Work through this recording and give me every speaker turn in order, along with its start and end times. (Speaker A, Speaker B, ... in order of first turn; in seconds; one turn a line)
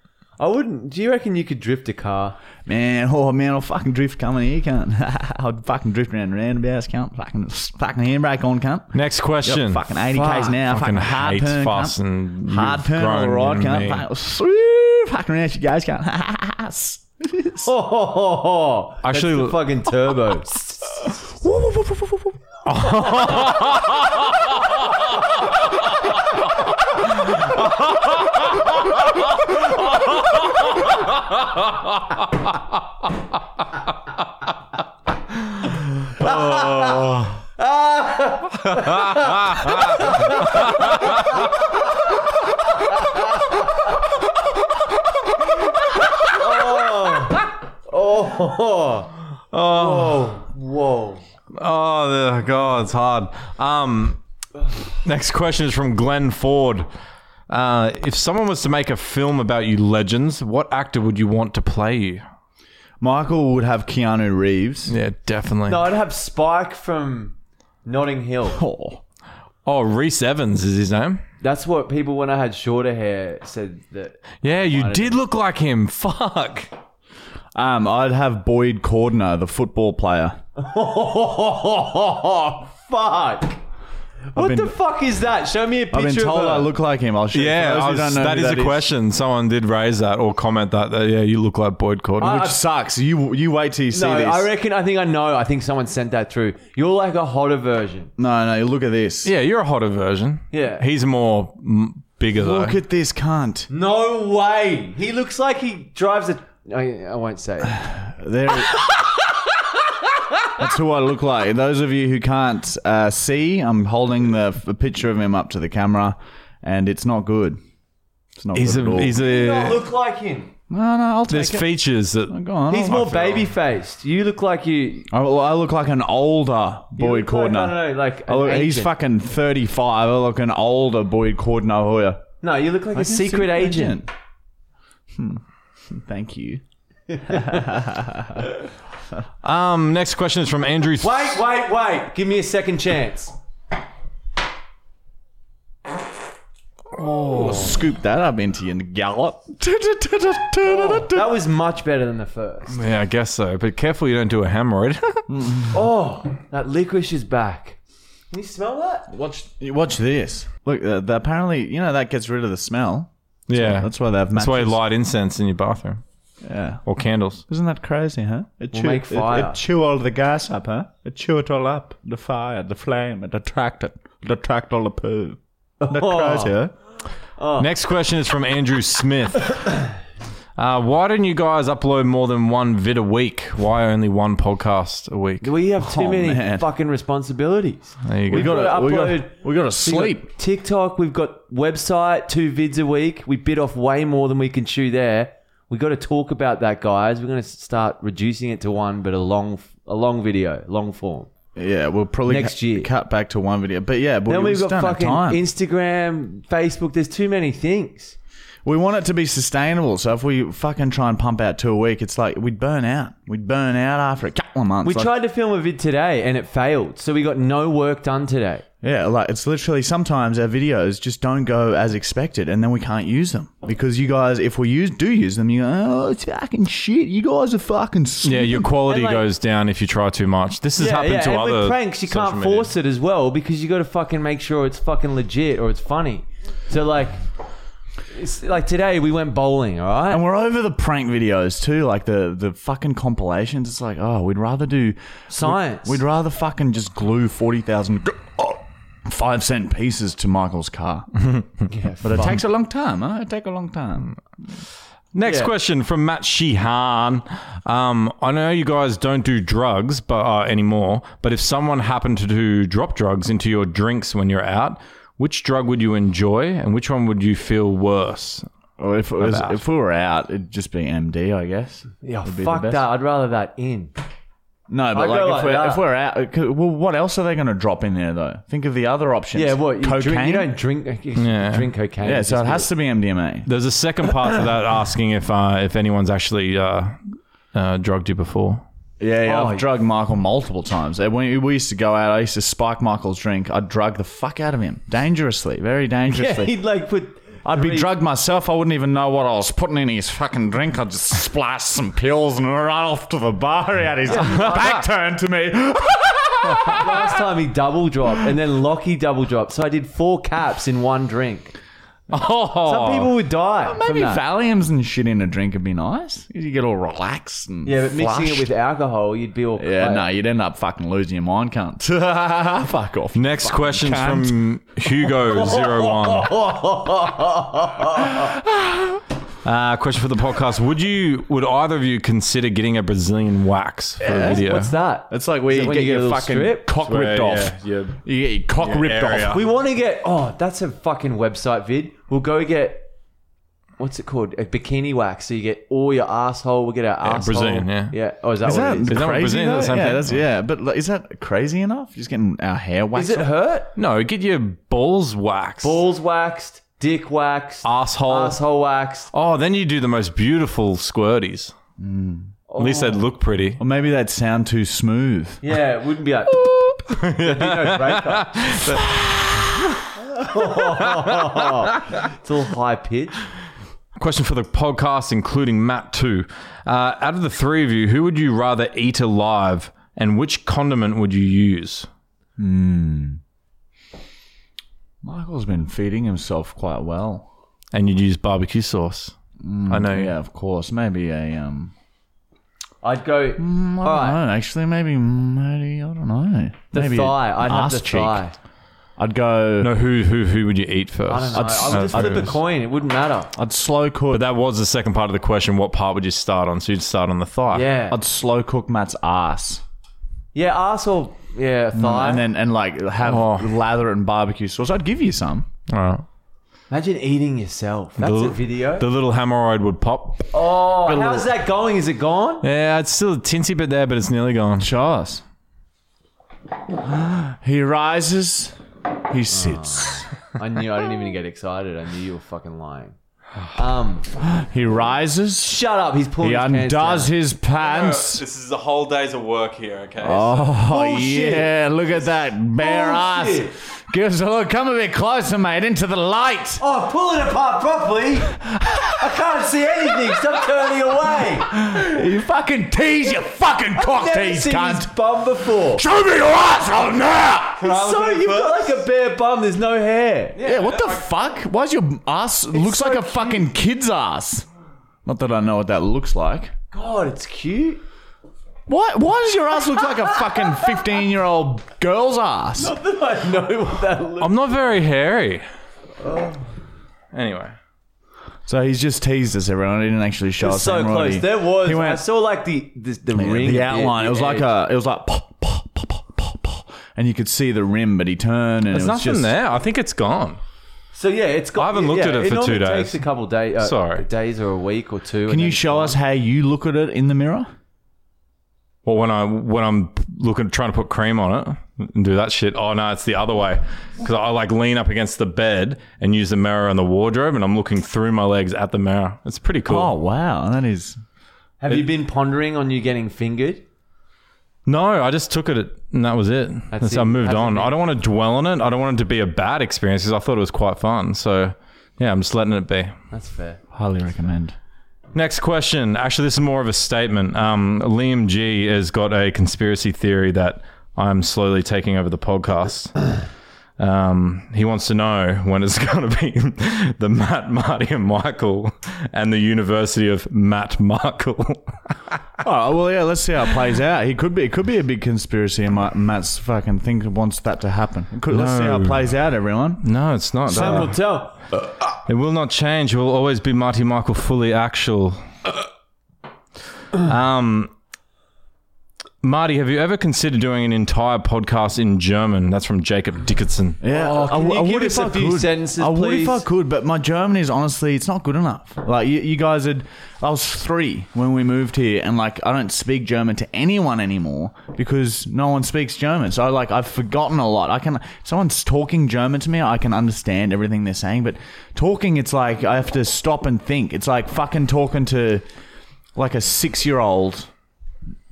Speaker A: 0.4-2.4
Speaker B: 2.6-17.7
Speaker C: 8.9-9.9
Speaker A: 10.1-10.6
Speaker C: 10.6-14.1
Speaker A: 17.6-21.1
Speaker C: 19.0-19.6
Speaker B: 21.4-22.4
Speaker C: 22.6-24.7
Speaker C: 36.0-37.4
Speaker A: 36.2-41.6
Speaker C: 38.7-40.0
Speaker C: 40.6-40.9
Speaker A: 42.9-43.5
Speaker A: 46.2-51.2
Speaker C: 49.5-50.3
Speaker C: 51.5-54.2
Speaker C: 55.0-56.9
Speaker C: 57.5-62.2
Speaker B: 63.0-64.9
Speaker C: 64.9-65.9
Speaker A: 65.7-68.6
Speaker B: 68.5-69.0
Speaker C: 69.7-71.2
Speaker A: 71.4-75.2
Speaker C: 74.4-76.7
Speaker B: 77.5-80.4
Speaker A: 80.6-83.6
Speaker A: 84.3-86.7
Speaker B: 84.4-84.7
Speaker B: 85.9-88.8
Speaker C: 87.3-92.4
Speaker B: 92.2-94.5
Speaker A: 92.2-92.6
Speaker A: 93.9-98.1
Speaker B: 98.2-99.3
Speaker C: 99.2-102.8
Speaker A: 100.5-100.8
Speaker B: 102.3-103.7
Speaker A: 103.7-107.8
Speaker B: 107.8-108.8
Speaker B: 110.6-117.6
Speaker B: 118.4-119.2
Speaker C: 118.5-119.8
Speaker A: 119.0-120.5
Speaker B: 120.7-121.7
Speaker C: 121.3-122.3
Speaker B: 122.3-123.3
Speaker A: 122.7-125.1
Speaker B: 125.1-132.3
Speaker A: 127.0-128.9
Speaker A: 132.4-134.0
Speaker B: 132.9-134.1
Speaker B: 135.2-136.6
Speaker A: 137.2-137.7
Speaker B: 137.3-138.5
Speaker C: 139.4-141.4
Speaker A: 141.0-143.3
Speaker C: 147.0-147.7
Speaker B: 147.3-151.3
Speaker A: 150.6-152.8
Speaker C: 152.7-155.3
Speaker B: 155.3-155.8
Speaker A: 155.7-157.8
Speaker A: 158.3-159.1
Speaker B: 159.1-164.8
Speaker C: 163.5-166.0
Speaker B: 166.4-166.8
Speaker C: 166.8-167.4
Speaker B: 167.5-176.7
Speaker A: 168.7-169.6
Speaker A: 175.8-176.6
Speaker A: 177.4-177.7
Speaker C: 177.6-179.5
Speaker C: 180.6-185.5
Speaker A: 185.4-201.3
Speaker B: 185.8-186.7
Speaker C: 188.1-188.6
Speaker B: 188.3-190.3
Speaker B: 201.6-205.4
Speaker A: 202.3-202.9
Speaker A: 204.3-208.2
Speaker B: 208.7-215.1
Speaker A: 214.8-218.7
Speaker B: 218.8-228.7
Speaker C: 228.2-232.7
Speaker A: 228.8-229.3
Speaker A: 230.8-237.2
Speaker A: 238.1-240.2
Speaker B: 240.1-251.1
Speaker A: 245.3-246.0
Speaker A: 251.7-252.4
Speaker B: 252.0-254.2
Speaker C: 255.1-268.5
Speaker A: 255.2-255.5
Speaker B: 268.8-272.8
Speaker C: 269.2-269.6
Speaker A: 272.0-273.9
Speaker B: 274.7-280.5
Speaker A: 274.9-275.8
Speaker A: 279.3-282.7
Speaker C: 281.2-281.7
Speaker B: 282.0-283.5
Speaker C: 283.5-287.0
Speaker C: 287.5-288.6
Speaker B: 289.0-296.5
Speaker A: 289.3-289.7
Speaker A: 296.1-297.9
Speaker B: 297.4-307.0
Speaker A: 304.1-304.8
Speaker C: 304.2-304.8
Speaker A: 306.7-311.6
Speaker C: 312.1-313.1
Speaker A: 312.6-314.2
Speaker B: 313.6-318.5
Speaker A: 317.6-320.1
Speaker B: 319.6-324.4
Speaker C: 323.1-326.3
Speaker A: 325.2-328.3
Speaker B: 328.2-329.0
Speaker C: 329.4-334.8
Speaker B: 334.0-334.4
Speaker A: 334.1-336.7
Speaker B: 335.1-339.4
Speaker C: 336.8-338.0
Speaker C: 338.6-339.4
Speaker A: 339.3-342.9
Speaker A: 343.8-349.1
Speaker C: 347.0-347.9
Speaker B: 348.4-353.3
Speaker C: 348.9-350.2
Speaker A: 352.9-353.7
Speaker C: 353.8-355.8
Speaker A: 355.6-359.1
Speaker C: 357.6-358.4
Speaker C: 359.1-361.5
Speaker B: 361.8-362.4
Speaker A: 362.5-363.1
Speaker C: 362.6-363.6
Speaker B: 363.6-365.4
Speaker A: 365.4-368.6
Speaker C: 366.9-369.7
Speaker A: 370.1-373.3
Speaker C: 371.0-371.4
Speaker C: 374.0-381.9
Speaker B: 382.4-383.2
Speaker B: 385.0-387.3
Speaker C: 387.7-389.2
Speaker B: 389.4-391.7
Speaker C: 389.7-390.1
Speaker A: 392.8-394.2
Speaker B: 393.4-398.2
Speaker A: 396.7-398.4
Speaker B: 399.0-399.7
Speaker C: 399.6-402.4
Speaker A: 401.1-403.3
Speaker B: 401.3-402.4
Speaker B: 403.4-404.2
Speaker C: 404.1-407.7
Speaker A: 407.5-408.0
Speaker B: 407.9-409.6
Speaker A: 410.3-412.3
Speaker B: 411.7-415.5
Speaker C: 413.0-413.5
Speaker C: 415.7-416.1
Speaker A: 416.7-418.9
Speaker C: 418.0-420.3
Speaker A: 420.3-422.5
Speaker B: 420.9-421.3
Speaker C: 422.4-424.7
Speaker B: 424.6-425.2
Speaker B: 426.8-428.6
Speaker B: 429.1-430.1
Speaker A: 429.3-433.0
Speaker A: 433.5-434.1
Speaker B: 434.2-435.5
Speaker A: 435.4-437.1
Speaker B: 436.2-438.2
Speaker C: 437.6-440.5
Speaker B: 440.0-446.6
Speaker A: 440.5-443.6
Speaker A: 446.6-448.4
Speaker A: 448.9-451.5
Speaker B: 451.5-454.9
Speaker A: 453.8-455.8
Speaker B: 455.7-457.6
Speaker A: 457.6-460.6
Speaker C: 457.6-458.8
Speaker B: 460.4-464.5
Speaker C: 460.5-461.0
Speaker A: 462.5-463.5
Speaker B: 465.1-466.5
Speaker A: 466.7-467.8
Speaker B: 468.7-472.7
Speaker A: 472.6-474.6
Speaker C: 474.2-475.5
Speaker A: 476.0-476.5
Speaker C: 477.1-477.6
Speaker B: 478.5-482.0
Speaker A: 480.4-484.5
Speaker B: 483.1-489.3
Speaker C: 488.7-490.4
Speaker A: 490.9-496.0
Speaker C: 491.6-493.0
Speaker C: 493.6-494.1
Speaker B: 495.3-497.5
Speaker C: 498.9-509.9
Speaker B: 509.7-511.0
Speaker A: 511.6-513.6
Speaker C: 514.7-523.0
Speaker A: 516.7-517.8
Speaker A: 523.1-523.6
Speaker B: 523.7-524.5
Speaker C: 525.1-532.9
Speaker C: 533.8-542.2
Speaker B: 542.4-549.9
Speaker C: 548.3-549.1
Speaker C: 549.8-551.0
Speaker B: 550.5-550.9
Speaker A: 550.5-551.4
Speaker C: 552.1-555.3
Speaker C: 557.0-557.7
Speaker C: 559.2-563.8
Speaker B: 563.8-585.5
Speaker A: 563.9-566.5
Speaker B: 586.2-587.5